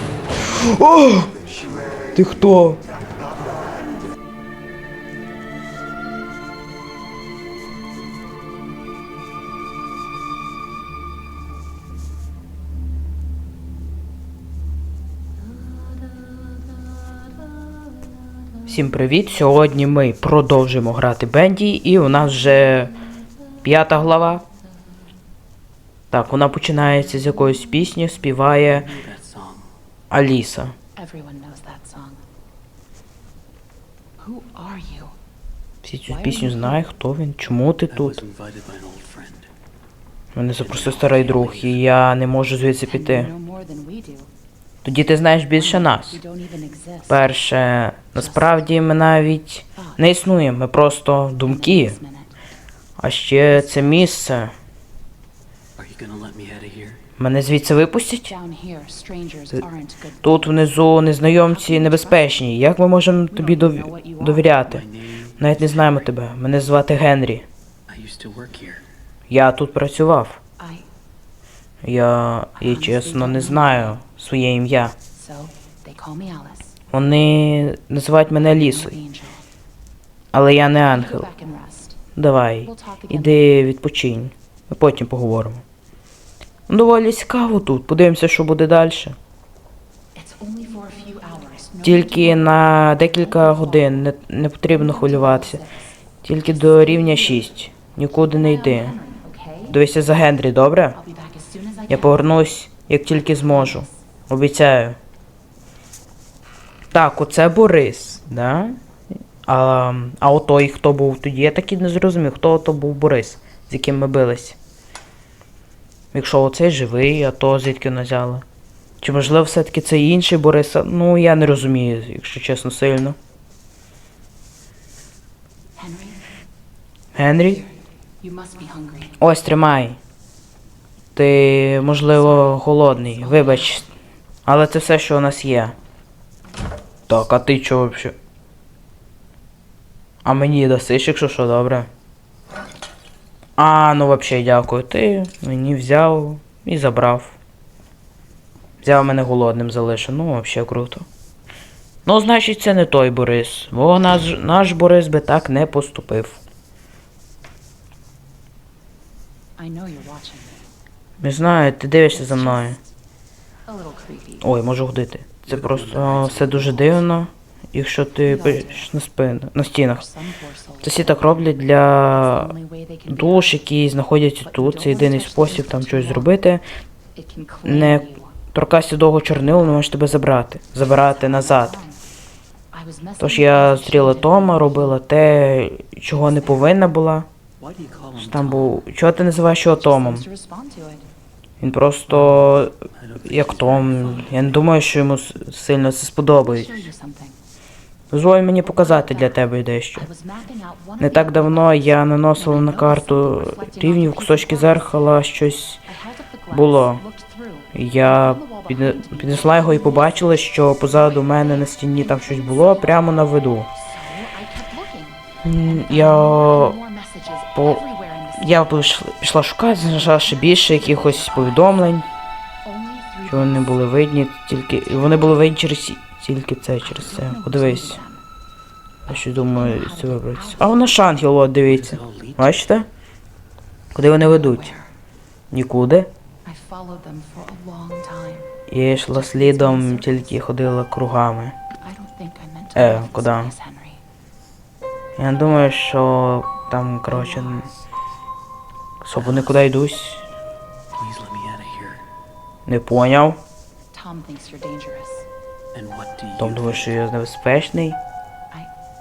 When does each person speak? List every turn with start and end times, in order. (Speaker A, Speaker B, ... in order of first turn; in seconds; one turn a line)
Speaker A: 0.4-1.3
Speaker A: 2.1-2.8
Speaker A: 18.6-22.9
Speaker A: 23.6-24.4
Speaker A: 26.1-28.9
Speaker B: 28.7-29.7
Speaker A: 30.1-30.8
Speaker C: 31.0-32.2
Speaker C: 34.2-35.1
Speaker A: 35.8-38.2
Speaker C: 36.0-36.8
Speaker B: 37.9-39.5
Speaker A: 40.3-43.3
Speaker B: 40.6-41.9
Speaker C: 42.9-44.3
Speaker A: 44.8-46.2
Speaker C: 45.5-47.3
Speaker A: 47.1-52.0
Speaker C: 48.1-48.7
Speaker C: 49.8-50.0
Speaker C: 51.4-52.3
Speaker A: 53.0-54.5
Speaker B: 55.8-57.0
Speaker A: 57.2-58.3
Speaker C: 58.3-62.4
Speaker A: 60.2-64.8
Speaker C: 63.3-64.6
Speaker B: 64.6-66.1
Speaker A: 65.4-67.5
Speaker B: 67.9-68.9
Speaker A: 69.3-70.4
Speaker C: 70.6-70.9
Speaker A: 71.8-75.0
Speaker C: 72.6-74.0
Speaker C: 75.1-76.8
Speaker A: 76.9-79.0
Speaker C: 78.4-79.4
Speaker A: 80.3-81.3
Speaker C: 80.9-82.0
Speaker A: 82.2-85.6
Speaker C: 82.6-83.5
Speaker A: 86.7-89.2
Speaker C: 90.1-94.0
Speaker A: 91.8-95.6
Speaker C: 94.7-95.7
Speaker A: 96.2-99.0
Speaker C: 96.6-97.5
Speaker C: 98.1-99.8
Speaker A: 99.7-101.0
Speaker C: 101.0-102.3
Speaker A: 101.9-105.0
Speaker C: 103.5-103.8
Speaker A: 106.9-108.8
Speaker A: 109.5-114.6
Speaker A: 116.1-118.5
Speaker A: 119.0-123.2
Speaker C: 125.8-126.2
Speaker A: 127.2-127.6
Speaker C: 128.2-129.2
Speaker A: 129.2-130.0
Speaker A: 131.1-133.9
Speaker C: 133.2-133.8
Speaker A: 134.5-135.8
Speaker A: 137.1-138.2
Speaker A: 140.2-141.9
Speaker A: 143.6-147.4
Speaker A: 148.8-151.1
Speaker A: 152.1-156.4
Speaker C: 159.6-160.6
Speaker A: 161.2-162.8
Speaker C: 162.1-162.8
Speaker C: 163.7-164.5
Speaker A: 164.4-170.1
Speaker B: 165.5-167.1
Speaker C: 168.2-168.9
Speaker C: 169.7-173.6
Speaker A: 170.8-172.5
Speaker A: 173.1-176.6
Speaker C: 174.4-176.4
Speaker C: 177.2-178.3
Speaker A: 177.7-181.8
Speaker C: 180.9-182.0
Speaker C: 182.7-185.0
Speaker A: 183.2-187.3
Speaker B: 187.6-188.8
Speaker A: 188.2-190.2
Speaker C: 189.7-191.1
Speaker A: 191.6-196.9
Speaker B: 192.1-194.6
Speaker C: 196.4-197.4
Speaker A: 198.1-200.1
Speaker C: 198.6-199.4
Speaker C: 200.0-204.9
Speaker A: 201.0-205.8
Speaker C: 205.8-219.1
Speaker A: 206.5-207.0
Speaker A: 207.7-213.7
Speaker A: 215.4-216.8
Speaker A: 217.6-217.8
Speaker A: 218.4-222.1
Speaker C: 219.8-221.9
Speaker C: 222.7-223.8
Speaker A: 223.2-228.0
Speaker C: 226.8-228.2
Speaker C: 229.1-231.0
Speaker A: 229.1-232.9
Speaker B: 231.7-232.6
Speaker A: 233.9-234.7
Speaker C: 234.2-234.9
Speaker A: 235.5-236.1
Speaker C: 236.4-238.5
Speaker A: 238.7-241.6
Speaker C: 239.1-240.2
Speaker C: 241.8-244.0
Speaker A: 242.8-243.5
Speaker A: 245.2-247.7
Speaker C: 247.1-247.9
Speaker A: 249.0-250.2
Speaker B: 249.2-249.6
Speaker B: 250.9-252.0
Speaker A: 252.7-253.4
Speaker C: 253.9-255.3
Speaker B: 255.7-256.9
Speaker A: 256.4-258.0